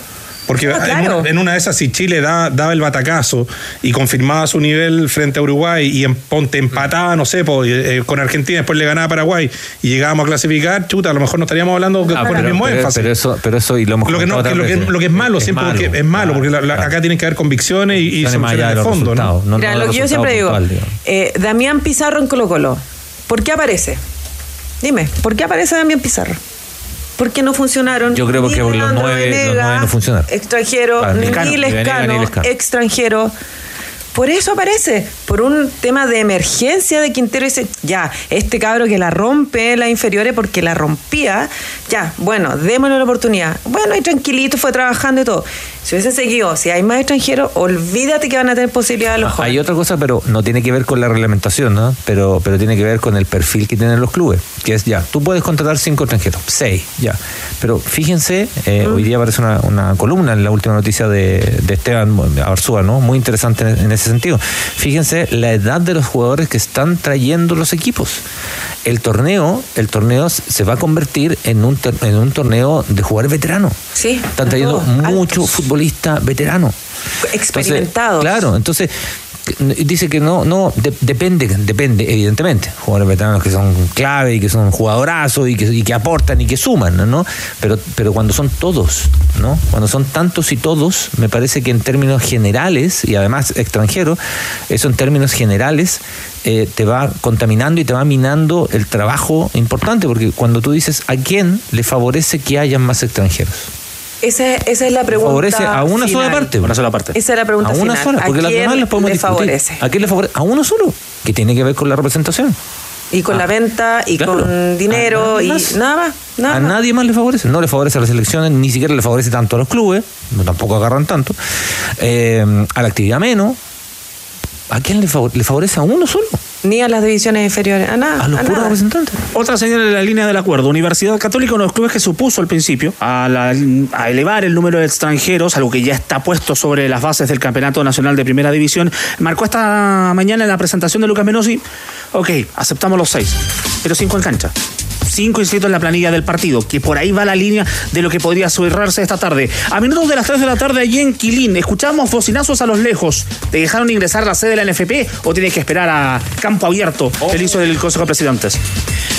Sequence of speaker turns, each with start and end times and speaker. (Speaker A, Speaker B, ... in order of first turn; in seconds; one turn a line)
Speaker A: 0.5-13.1
Speaker B: 0.6-1.3
Speaker C: 12.1-16.9
Speaker B: 12.2-12.6
Speaker A: 14.1-19.4
Speaker C: 17.9-20.9
Speaker B: 19.6-24.0
Speaker B: 24.8-26.4
Speaker B: 27.2-33.3
Speaker C: 28.1-30.3
Speaker C: 31.0-32.5
Speaker D: 31.2-31.5
Speaker B: 34.1-49.6
Speaker C: 49.2-68.2
Speaker C: 68.8-73.8
Speaker B: 74.0-75.5
Speaker C: 74.4-76.8
Speaker B: 77.2-78.4
Speaker C: 77.5-78.9
Speaker C: 79.5-103.7
Speaker B: 104.2-106.5
Speaker C: 105.1-106.7
Speaker D: 106.6-107.2
Speaker B: 107.1-109.8
Speaker C: 107.6-112.6
Speaker B: 113.1-116.8
Speaker C: 114.2-115.8
Speaker C: 116.5-121.4
Speaker C: 122.0-123.6
Speaker C: 124.7-126.4
Speaker B: 126.6-128.8
Speaker C: 128.2-129.2
Speaker D: 129.3-144.5
Speaker D: 145.1-158.6